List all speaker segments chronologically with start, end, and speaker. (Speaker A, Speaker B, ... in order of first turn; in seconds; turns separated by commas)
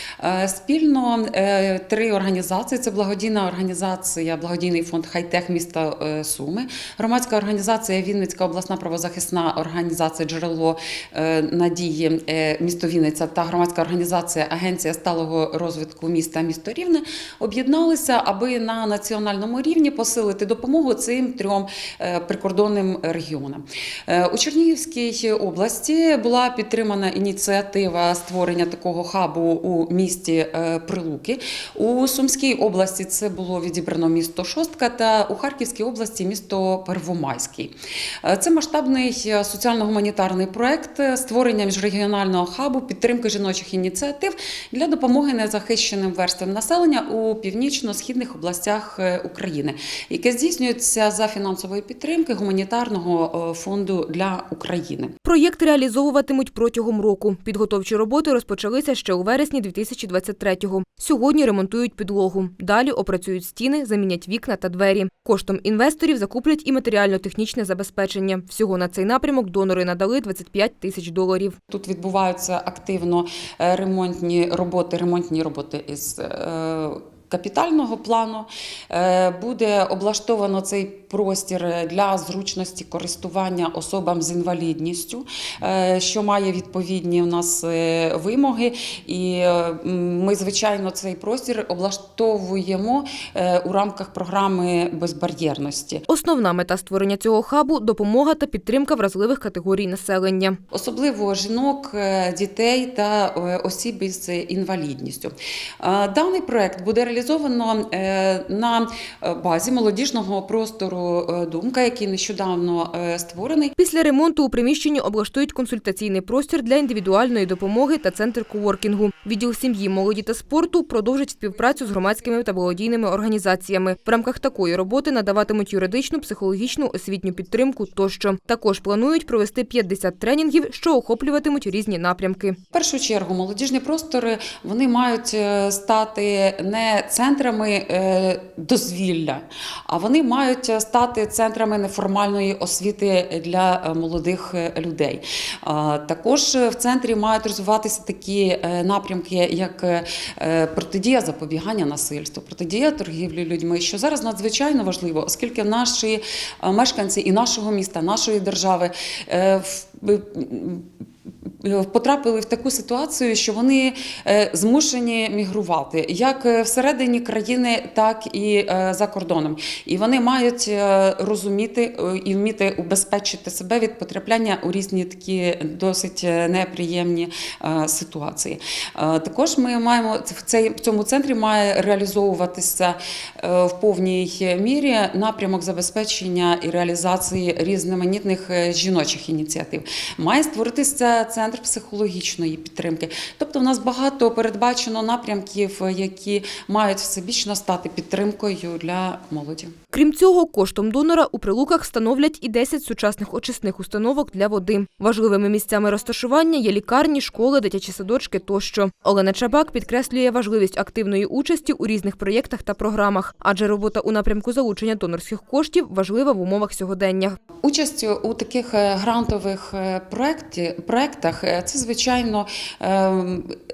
Speaker A: 0.2-55.1, Speaker B: 55.2-71.6, Speaker A: 71.7-96.0, Speaker B: 96.1-100.6, Speaker A: 100.7-113.8, Speaker B: 113.8-132.6, Speaker A: 132.7-160.9, Speaker A: 161.5-199.7, Speaker B: 199.9-217.4, Speaker A: 217.6-223.6